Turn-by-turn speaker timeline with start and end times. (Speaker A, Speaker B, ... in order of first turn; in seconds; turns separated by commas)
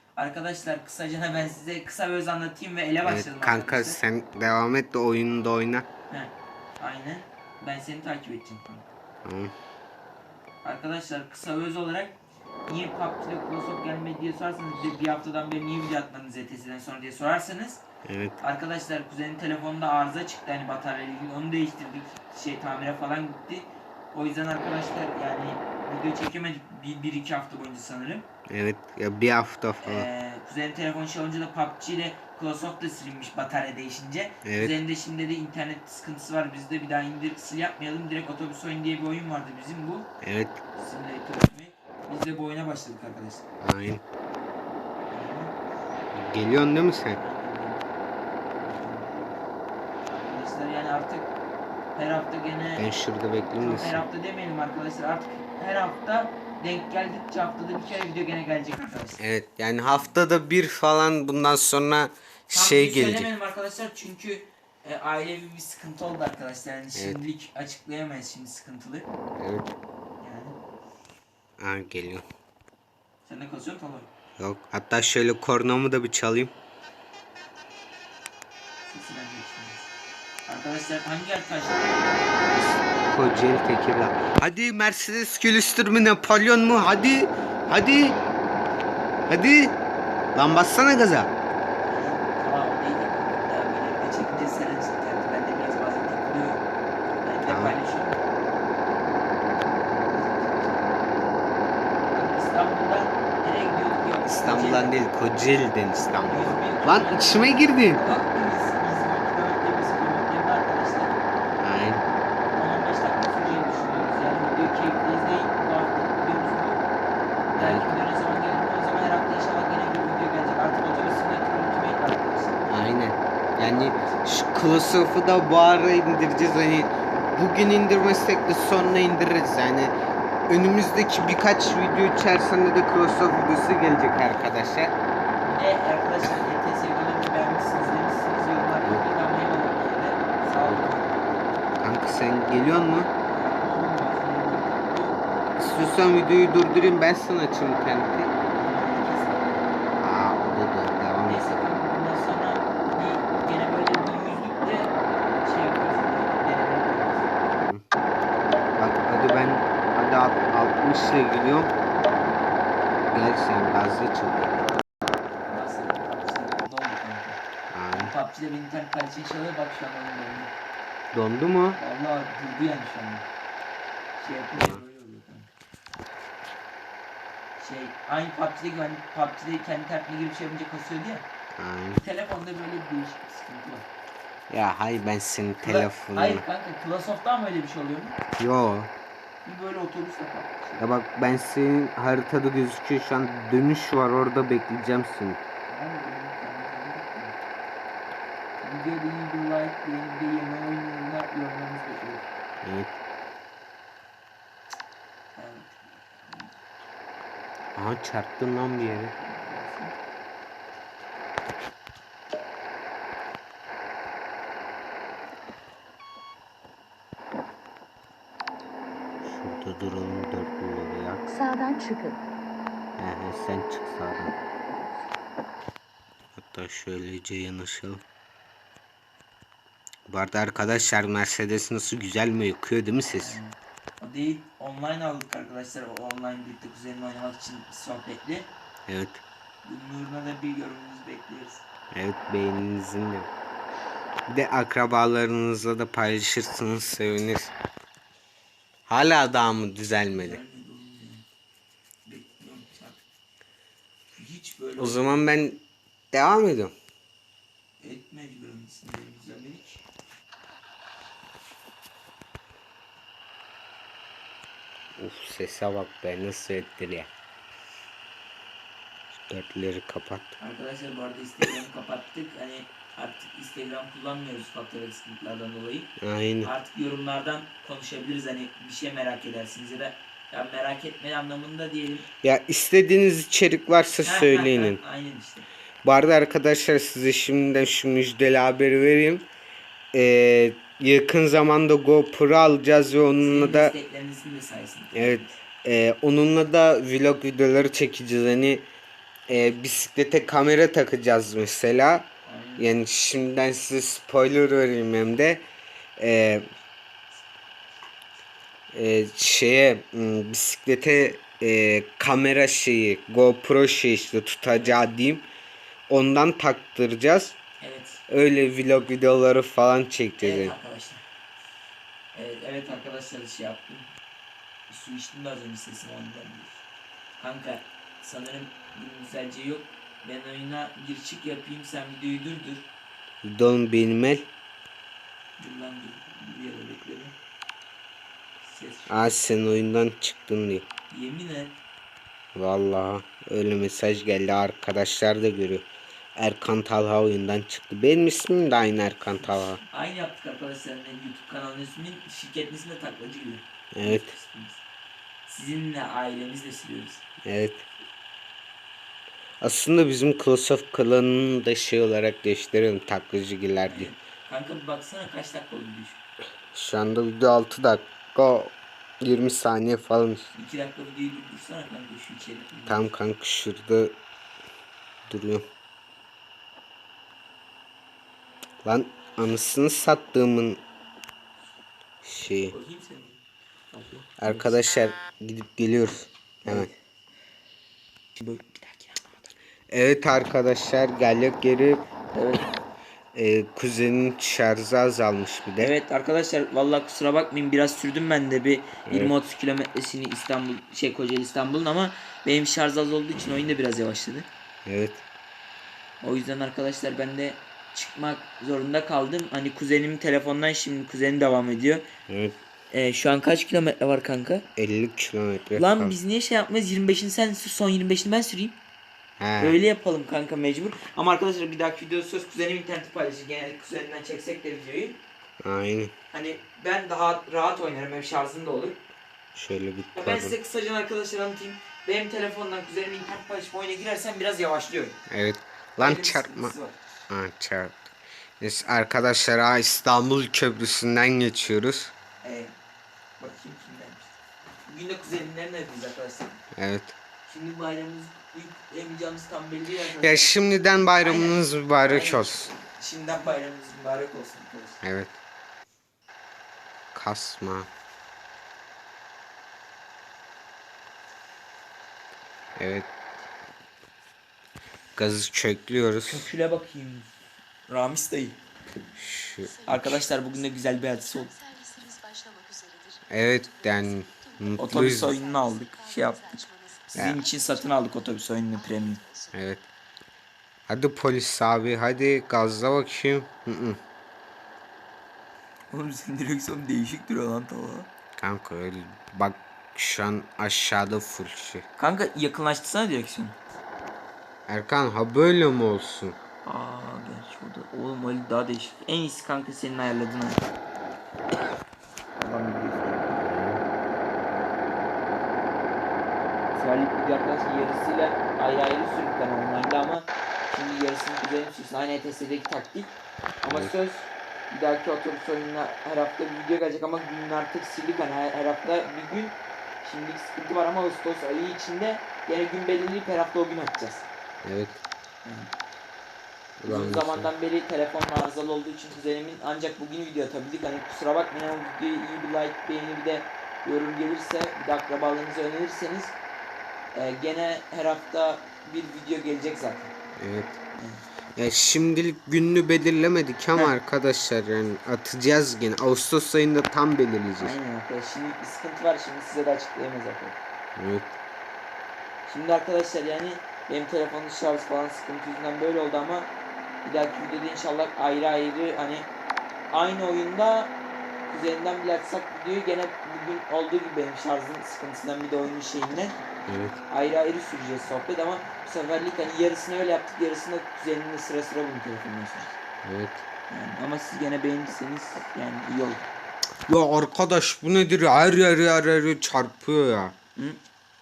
Speaker A: 0.2-4.0, Speaker B: 3.0-5.8, Speaker A: 6.1-8.9, Speaker B: 9.2-9.5, Speaker A: 10.6-17.8, Speaker B: 18.1-18.4, Speaker A: 18.4-28.2, Speaker B: 28.5-30.1, Speaker A: 29.8-40.1, Speaker B: 34.4-34.8, Speaker B: 40.2-40.6, Speaker A: 40.7-43.4, Speaker B: 43.6-44.0, Speaker A: 45.1-45.5, Speaker B: 46.1-47.2, Speaker A: 47.1-47.8, Speaker A: 48.5-49.4, Speaker A: 50.1-51.3, Speaker A: 51.9-52.8, Speaker B: 52.8-54.0, Speaker A: 53.6-59.2, Speaker B: 59.2-63.3, Speaker A: 62.5-69.1, Speaker B: 66.9-67.2, Speaker B: 69.4-69.7, Speaker A: 70.2-70.5, Speaker B: 71.6-72.2, Speaker A: 73.2-74.1, Speaker B: 74.4-76.5, Speaker A: 78.8-79.9, Speaker A: 80.5-82.8, Speaker B: 83.1-88.2, Speaker B: 89.3-89.8, Speaker B: 90.3-91.3, Speaker A: 91.8-96.6, Speaker A: 97.2-98.2, Speaker B: 97.5-97.8, Speaker A: 99.5-101.1, Speaker A: 102.1-105.0, Speaker B: 104.2-108.0, Speaker A: 106.2-111.2, Speaker B: 111.6-112.0, Speaker A: 112.5-116.8, Speaker A: 117.5-122.6, Speaker B: 117.6-117.9, Speaker B: 122.7-129.9, Speaker A: 123.8-124.2, Speaker B: 130.5-134.9, Speaker A: 135.4-141.2, Speaker B: 140.6-140.9, Speaker B: 141.8-143.1, Speaker A: 143.3-145.2, Speaker B: 145.6-148.3, Speaker A: 148.5-149.6, Speaker B: 150.0-151.7, Speaker A: 151.2-157.3, Speaker B: 158.8-161.7, Speaker B: 163.1-164.6, Speaker A: 165.5-167.4, Speaker B: 167.7-168.1, Speaker A: 167.9-170.5, Speaker B: 171.1-171.8, Speaker A: 171.7-173.2, Speaker A: 174.2-175.5, Speaker B: 174.6-174.8, Speaker A: 177.6-181.2, Speaker B: 181.6-182.0, Speaker A: 182.0-183.8, Speaker B: 184.5-186.4, Speaker A: 185.6-188.2, Speaker B: 188.4-188.9, Speaker A: 189.4-190.8, Speaker B: 190.8-195.4, Speaker A: 195.7-197.4, Speaker A: 198.6-202.3, Speaker B: 202.6-202.9, Speaker A: 205.3-206.5, Speaker B: 207.7-209.1, Speaker A: 209.0-209.9, Speaker B: 219.2-221.2, Speaker C: 221.3-222.2, Speaker B: 223.0-224.3, Speaker B: 226.3-228.0, Speaker B: 230.1-233.4, Speaker A: 233.2-238.5, Speaker B: 238.9-239.2, Speaker A: 239.6-241.6, Speaker B: 241.9-243.3, Speaker B: 244.3-247.5, Speaker B: 248.9-250.4, Speaker A: 250.1-251.2, Speaker A: 252.1-253.0, Speaker A: 254.1-255.2, Speaker B: 254.8-256.7, Speaker A: 257.8-259.8, Speaker B: 265.0-267.1, Speaker B: 269.3-270.4, Speaker A: 270.4-275.9, Speaker B: 276.0-276.5, Speaker A: 276.4-282.1, Speaker B: 282.2-284.8, Speaker A: 284.0-285.5, Speaker B: 285.8-289.3, Speaker B: 289.9-293.7, Speaker A: 293.2-295.3, Speaker B: 294.9-298.6, Speaker B: 299.3-305.4, Speaker A: 302.2-302.7, Speaker B: 306.0-306.5, Speaker B: 308.7-315.3, Speaker B: 315.9-317.4, Speaker A: 317.6-318.0, Speaker B: 318.1-320.5, Speaker A: 320.2-321.0, Speaker A: 322.1-323.9, Speaker A: 324.7-326.6, Speaker A: 327.2-332.7, Speaker B: 333.2-334.3, Speaker A: 335.4-337.1, Speaker A: 338.4-339.1, Speaker B: 338.9-340.7, Speaker A: 340.9-341.6, Speaker B: 342.3-349.6, Speaker A: 349.2-354.6, Speaker B: 353.7-354.1, Speaker A: 355.3-357.0, Speaker B: 357.2-357.6, Speaker B: 359.4-363.9, Speaker A: 363.7-366.0, Speaker B: 366.5-370.3, Speaker A: 370.3-372.9, Speaker B: 372.7-373.9, Speaker B: 375.1-375.4, Speaker B: 378.6-380.6, Speaker B: 382.0-382.5, Speaker A: 382.5-383.2, Speaker A: 383.7-384.6, Speaker B: 384.2-386.7, Speaker A: 386.4-386.7, Speaker A: 388.1-389.3, Speaker B: 389.7-391.9, Speaker A: 392.1-392.6, Speaker B: 393.1-395.7, Speaker A: 395.6-404.3, Speaker B: 398.9-399.1, Speaker B: 404.6-405.0, Speaker A: 406.0-411.8, Speaker B: 412.1-412.4, Speaker A: 412.7-414.4, Speaker B: 414.6-416.0, Speaker A: 415.6-418.6, Speaker B: 419.2-419.6, Speaker A: 419.4-425.0, Speaker B: 425.4-425.9, Speaker A: 426.1-428.8, Speaker B: 429.3-430.4, Speaker A: 429.9-435.0, Speaker B: 435.1-436.5, Speaker A: 435.8-436.8, Speaker B: 437.1-437.9, Speaker B: 438.4-441.9, Speaker A: 442.2-442.5, Speaker A: 443.2-444.1, Speaker A: 444.6-446.4, Speaker B: 446.6-446.9, Speaker A: 447.2-450.3, Speaker B: 450.0-452.5, Speaker A: 451.0-454.8, Speaker B: 454.8-455.1, Speaker B: 456.9-457.7, Speaker B: 462.6-462.9, Speaker B: 464.9-466.3, Speaker A: 466.1-467.1, Speaker A: 467.7-468.4, Speaker B: 468.9-470.0, Speaker A: 469.7-471.4, Speaker C: 471.6-473.0, Speaker B: 473.1-475.2, Speaker A: 474.6-479.0, Speaker B: 476.9-477.2, Speaker B: 479.3-479.6, Speaker B: 480.7-483.8, Speaker A: 485.7-487.9, Speaker B: 488.2-491.6, Speaker A: 491.8-493.4, Speaker B: 494.5-496.1, Speaker A: 496.4-500.4, Speaker A: 502.2-503.1, Speaker B: 503.2-503.6, Speaker A: 506.5-524.1, Speaker B: 513.5-513.7, Speaker B: 524.4-524.8, Speaker A: 525.2-525.5, Speaker B: 526.6-527.3, Speaker A: 526.6-536.1, Speaker A: 536.9-539.9, Speaker B: 540.2-540.6, Speaker A: 540.8-541.0, Speaker B: 541.4-547.5, Speaker A: 547.4-550.4, Speaker B: 550.8-551.1, Speaker A: 552.2-556.3, Speaker A: 556.8-559.1, Speaker A: 559.7-560.7, Speaker A: 561.3-566.2, Speaker B: 566.5-566.8, Speaker A: 566.9-572.5, Speaker B: 572.8-573.2, Speaker A: 573.5-576.0, Speaker B: 576.7-580.1